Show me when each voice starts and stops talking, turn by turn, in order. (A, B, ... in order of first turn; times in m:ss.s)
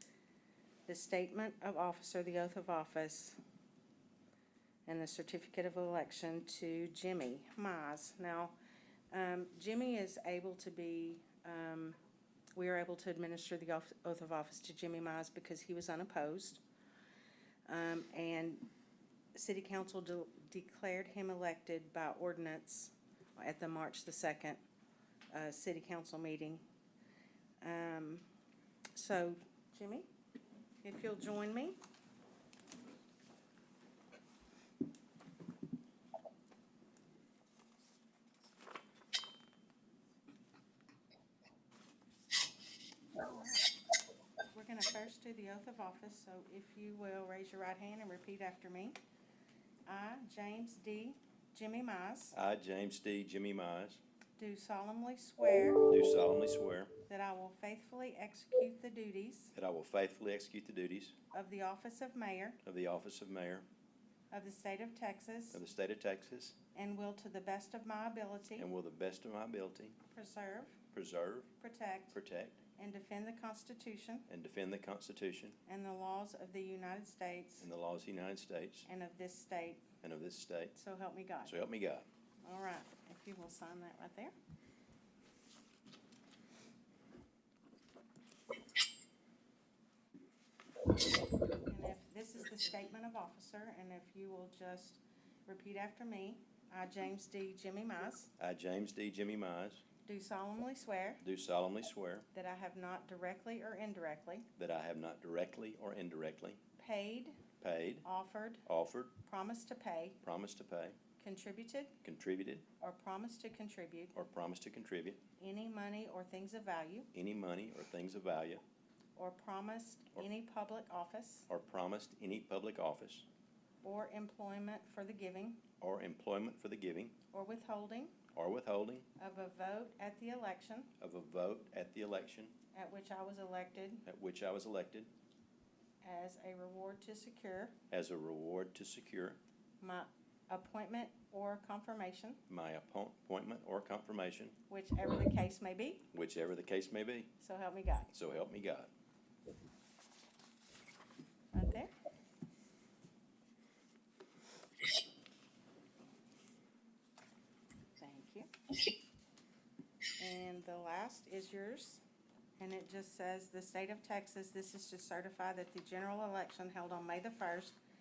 0:00.9-0:03.4 A
0:04.8-0:08.5 A
0:09.1-0:12.0 A
0:12.5-0:16.6 A
0:17.6-0:18.7 A
0:19.3-0:24.6 A
0:25.3-0:26.6 A
0:27.6-0:28.3 A
0:28.9-0:30.1 A
0:30.8-0:31.8 A
0:43.2-0:43.6 A
0:44.5-0:49.0 A
0:49.8-0:52.4 A
0:52.3-0:54.0 B
0:54.4-0:55.9 A
0:55.8-0:56.9 B
0:57.0-0:59.5 A
0:59.5-1:01.1 B
1:01.3-1:02.6 A
1:02.6-1:03.6 B
1:04.3-1:05.6 A
1:05.5-1:06.6 B
1:06.7-1:08.7 A
1:08.6-1:10.0 B
1:10.1-1:10.8 A
1:10.9-1:11.5 B
1:11.6-1:12.2 A
1:12.1-1:12.6 B
1:12.8-1:14.3 A
1:14.3-1:15.6 B
1:15.7-1:17.7 A
1:17.6-1:18.9 B
1:18.8-1:19.8 A
1:20.0-1:20.8 B
1:20.7-1:21.6 A
1:21.4-1:22.0 B
1:22.4-1:24.3 A
1:31.6-1:38.3 A
1:38.4-1:39.8 B
1:40.0-1:41.2 A
1:41.2-1:42.3 B
1:42.3-1:44.5 A
1:44.6-1:46.6 B
1:46.8-1:47.4 A
1:47.6-1:48.0 B
1:48.0-1:48.6 A
1:48.7-1:49.1 B
1:49.2-1:50.2 A
1:50.2-1:51.0 B
1:51.2-1:51.9 A
1:52.0-1:52.6 B
1:52.8-1:54.1 A
1:54.1-1:55.2 B
1:55.4-1:57.1 A
1:57.1-1:58.6 B
1:59.2-2:01.5 A
2:01.5-2:03.2 B
2:03.8-2:05.6 A
2:05.8-2:07.1 B
2:07.3-2:08.2 A
2:08.3-2:09.1 B
2:09.2-2:10.9 A
2:11.0-2:12.5 B
2:12.7-2:14.0 A
2:14.0-2:15.1 B
2:16.0-2:17.7 A
2:17.9-2:19.4 B
2:19.8-2:22.4 A
2:22.5-2:24.5 B
2:24.7-2:26.0 A
2:26.1-2:27.3 B
2:27.4-2:28.1 A
2:28.1-2:28.9 B
2:31.5-2:31.9 A
2:38.0-2:38.5 A
2:40.2-2:42.0 A
2:42.6-2:47.8 A